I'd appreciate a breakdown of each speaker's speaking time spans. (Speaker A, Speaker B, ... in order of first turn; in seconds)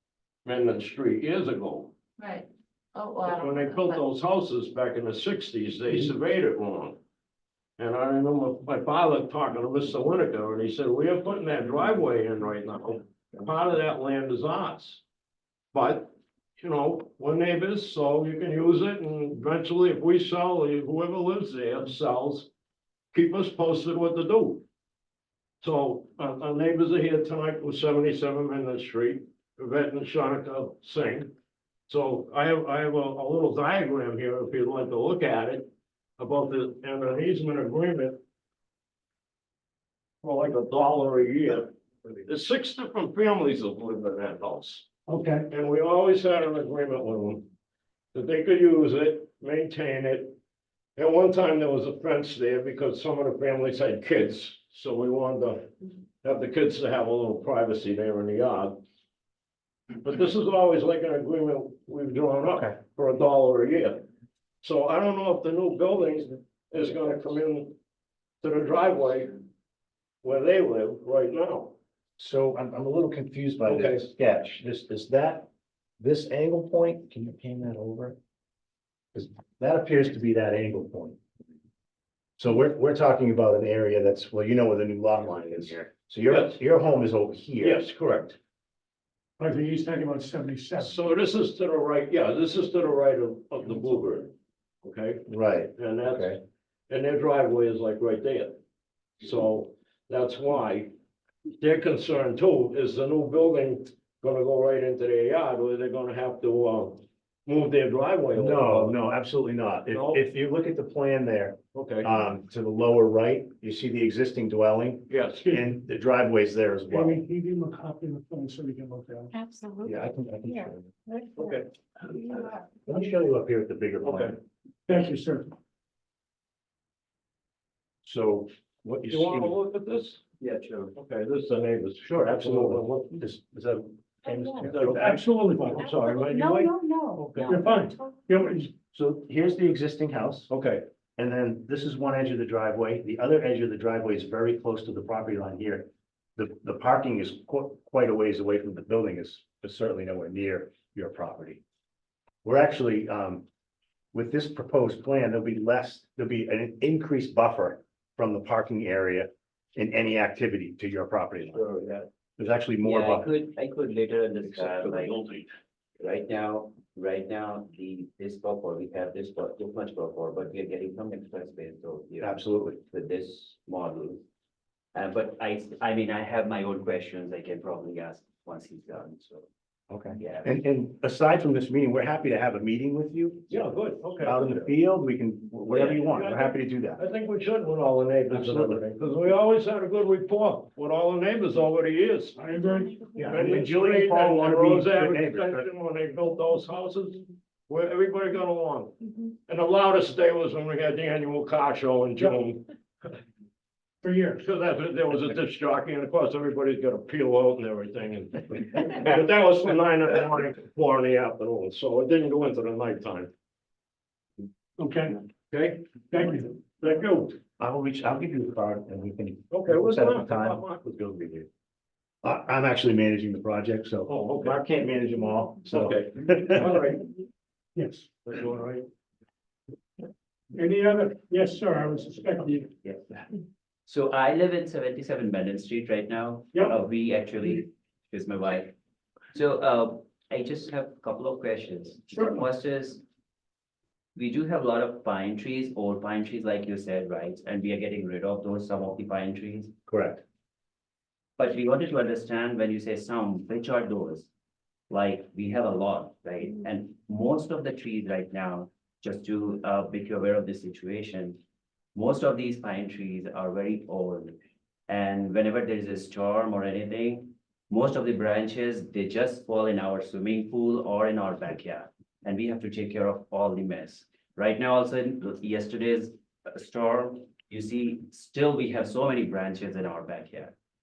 Speaker A: 0.4-1.9, 3.2-7.0, 7.8-15.0, 15.7-22.5, 23.1-24.6, 25.6-31.3, 31.9-38.2, 40.2-44.9, 45.5-47.5, 48.1-50.4, 51.0-58.8, 60.0-64.0, 64.6-67.8, 68.4-69.4, 70.2-71.8, 73.7-74.0, 86.3-86.6, 87.6-88.4, 90.8-98.6, 99.2-100.9, 101.6-109.0, 109.9-110.2, 111.7-112.1, 115.1-115.5, 121.3-121.7, 124.0-124.3, 129.1-130.2, 130.9-133.2, 134.6-137.6, 140.5-140.8, 164.6-165.4, 183.5-184.7, 186.1-192.4, 193.3-202.7, 204.4-213.3, 215.5-215.9, 216.8-217.3, 219.5-221.5, 224.1-224.6, 225.6-227.1, 228.2-228.8
Speaker B: 2.2-4.0, 119.3-120.0, 120.5-122.6, 134.3-134.7, 135.8-138.2
Speaker C: 45.1-45.5, 89.4-90.9, 116.9-119.3, 124.9-125.5, 134.8-135.8, 137.4-138.7, 192.4-193.0, 204.0-204.4, 214.8-215.2, 216.1-217.0, 227.8-228.1, 230.5-232.7, 242.1-242.4
Speaker D: 72.2-78.2, 79.1-81.2, 82.4-87.8, 95.3-96.4, 108.3-117.2, 119.8-120.9, 122.8-124.4, 128.0-129.6, 132.0-135.2, 138.9-140.5, 141.2-151.6, 152.4-153.4, 154.1-161.6, 162.4-163.3, 172.2-172.8, 179.9-187.0, 188.3-188.8, 193.2-195.7, 217.6-220.6, 222.2-226.7, 249.9-250.2
Speaker E: 130.4-130.9, 161.5-162.1, 162.8-165.2, 166.0-174.2, 174.9-179.5, 180.2-180.5, 185.7-186.0, 232.8-233.2, 233.8-238.7, 239.3-243.0, 244.2-249.7, 251.4-254.3, 254.9-261.4, 261.9-280.5